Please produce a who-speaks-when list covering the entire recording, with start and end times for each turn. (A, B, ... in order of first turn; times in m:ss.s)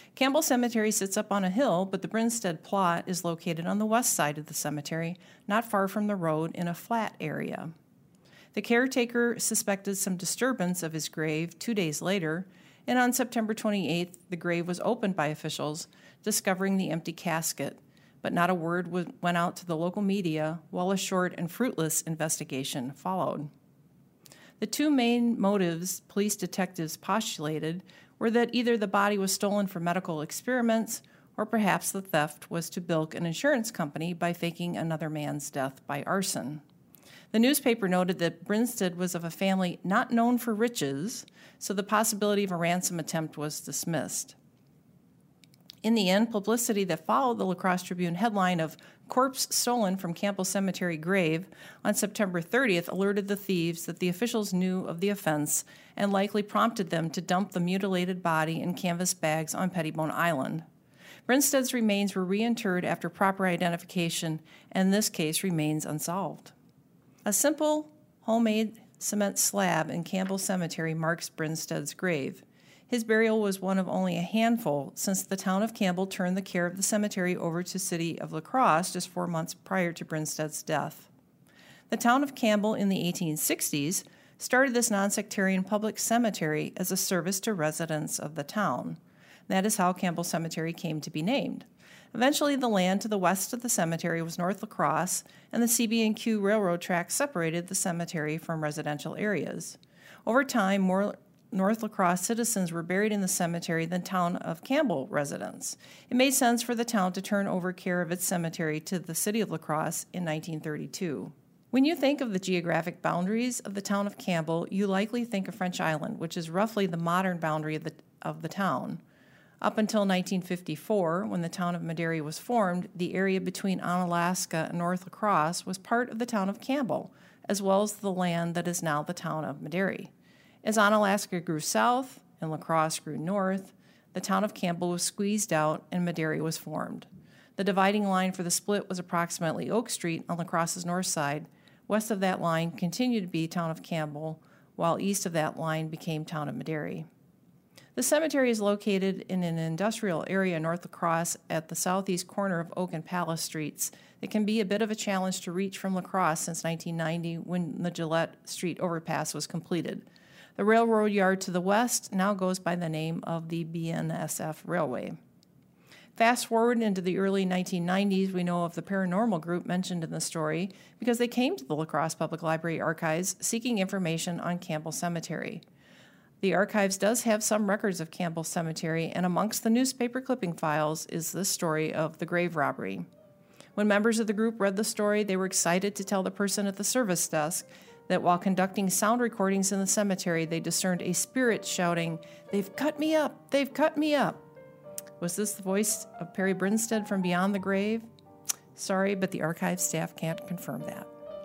0:00.1-0:07.7 A
0:08.5-0:23.5 A
0:24.6-0:36.6 A
0:37.3-0:44.3 A
0:45.8-1:00.6 A
1:01.3-1:06.5 A
1:07.2-1:21.1 A
1:21.9-1:59.0 A
1:59.6-2:10.1 A
2:10.6-2:27.1 A
2:27.9-2:45.2 A
2:46.2-2:55.6 A
2:56.4-3:03.0 A
3:03.8-3:14.4 A
3:15.2-3:18.1 A
3:18.7-3:21.1 A